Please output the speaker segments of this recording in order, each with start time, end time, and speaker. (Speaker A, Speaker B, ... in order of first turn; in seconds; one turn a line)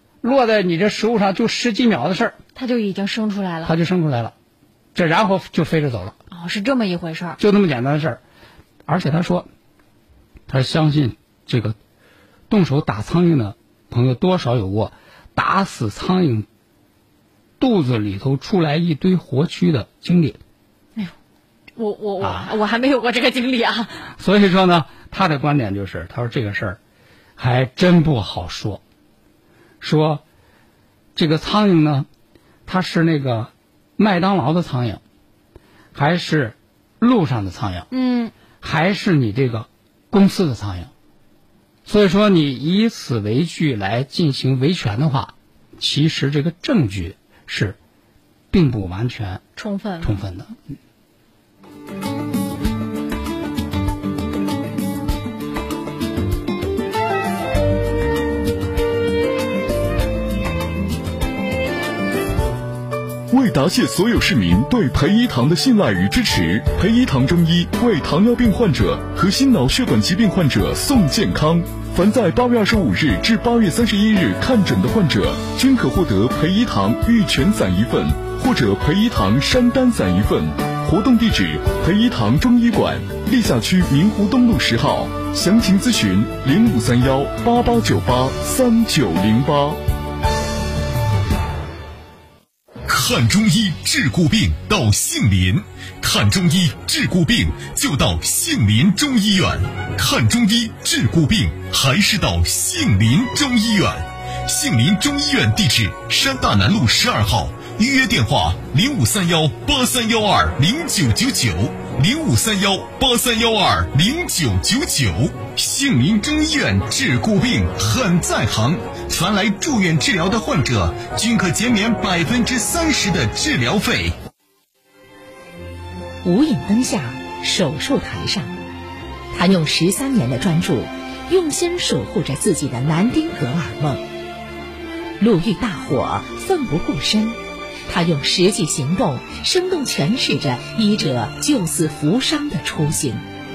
Speaker A: 0.2-2.4
Speaker B: 2.5-3.7
Speaker A: 3.6-4.3
Speaker A: 4.9-6.2
Speaker B: 6.3-7.4
Speaker A: 7.4-8.2
Speaker A: 8.8-9.5
Speaker A: 10.5-11.8
Speaker A: 12.5-16.5
Speaker A: 17.6-20.4
Speaker B: 21.8-23.9
Speaker A: 22.2-22.5
Speaker A: 24.2-26.8
Speaker A: 27.4-28.8
Speaker A: 29.8-30.2
Speaker A: 31.1-32.1
Speaker A: 32.7-35.0
Speaker A: 35.9-37.9
Speaker B: 37.9-38.3
Speaker A: 38.6-40.9
Speaker A: 41.9-47.8
Speaker A: 48.5-49.4
Speaker B: 49.5-50.1
Speaker A: 50.0-50.5
Speaker C: 63.3-89.8
Speaker D: 92.8-124.2
Speaker E: 126.2-128.5
Speaker E: 129.3-134.0
Speaker E: 135.2-143.2